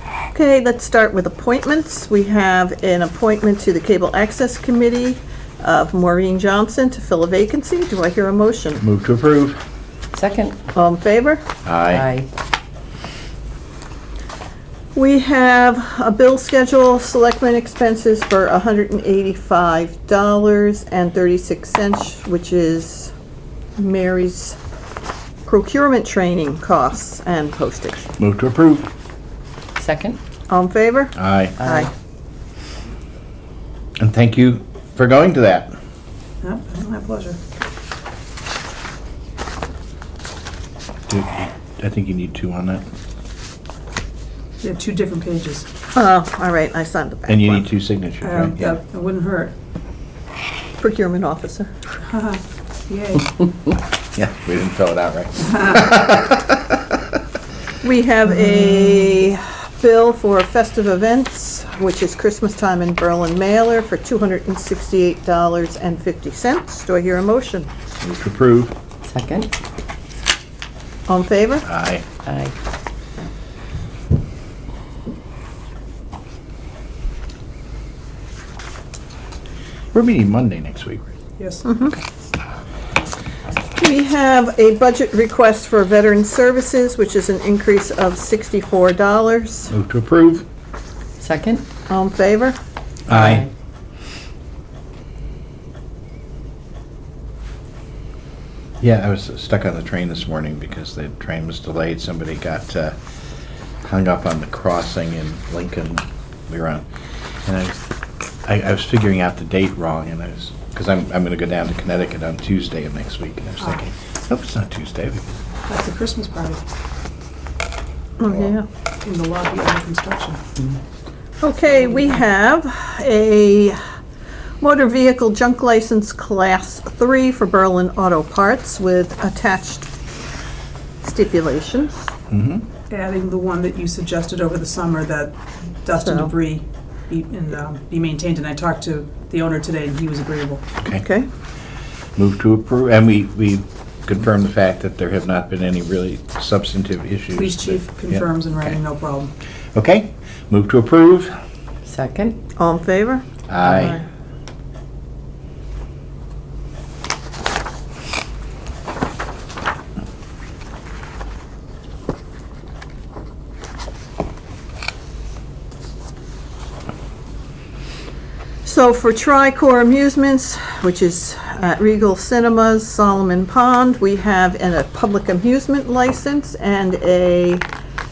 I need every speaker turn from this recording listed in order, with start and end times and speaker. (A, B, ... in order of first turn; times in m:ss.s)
0:00.3-0:08.8 A
0:08.8-0:09.6 B
0:10.1-0:10.6 C
0:10.7-0:11.4 A
0:11.6-0:12.1 B
0:11.9-0:12.3 C
0:14.9-0:23.1 A
0:23.8-0:24.6 A
0:25.4-0:28.1 A
0:28.2-0:28.9 B
0:29.8-0:30.2 C
0:30.5-0:31.9 A
0:31.2-0:31.6 B
0:31.6-0:31.9 C
0:34.0-0:35.7 B
0:36.4-0:37.4 D
0:41.1-0:42.8 B
0:44.6-0:45.6 D
0:45.9-0:47.6 A
0:47.3-0:48.7 B
0:48.2-0:49.5 D
0:50.8-0:51.7 A
0:52.1-0:53.4 D
0:54.1-0:56.5 B
0:57.8-1:07.7 A
1:08.0-1:08.7 B
1:09.0-1:09.5 C
1:11.1-1:11.7 A
1:11.6-1:12.0 B
1:12.2-1:12.5 C
1:19.9-1:21.0 B
1:21.4-1:21.6 D
1:21.6-1:21.9 A
1:23.8-1:29.7 A
1:29.7-1:30.4 B
1:31.2-1:31.6 C
1:31.9-1:32.6 A
1:33.1-1:33.5 B
1:33.1-1:33.5 C
1:38.8-1:43.0 B
1:43.8-1:46.8 B
1:47.4-1:47.8 B
1:48.4-1:55.4 B
1:55.7-1:56.6 D
1:58.2-1:58.6 A
1:59.0-2:00.4 D
2:01.4-2:03.8 A
2:04.6-2:09.9 A
2:11.0-2:12.1 A
2:12.3-2:12.6 B
2:12.9-2:20.6 D
2:15.9-2:16.3 A
2:20.8-2:21.3 A
2:22.2-2:28.7 B
2:27.4-2:29.3 D
2:29.7-2:31.3 B
2:31.8-2:32.4 C
2:32.6-2:33.2 A
2:33.5-2:34.0 B
2:48.6-2:57.6 A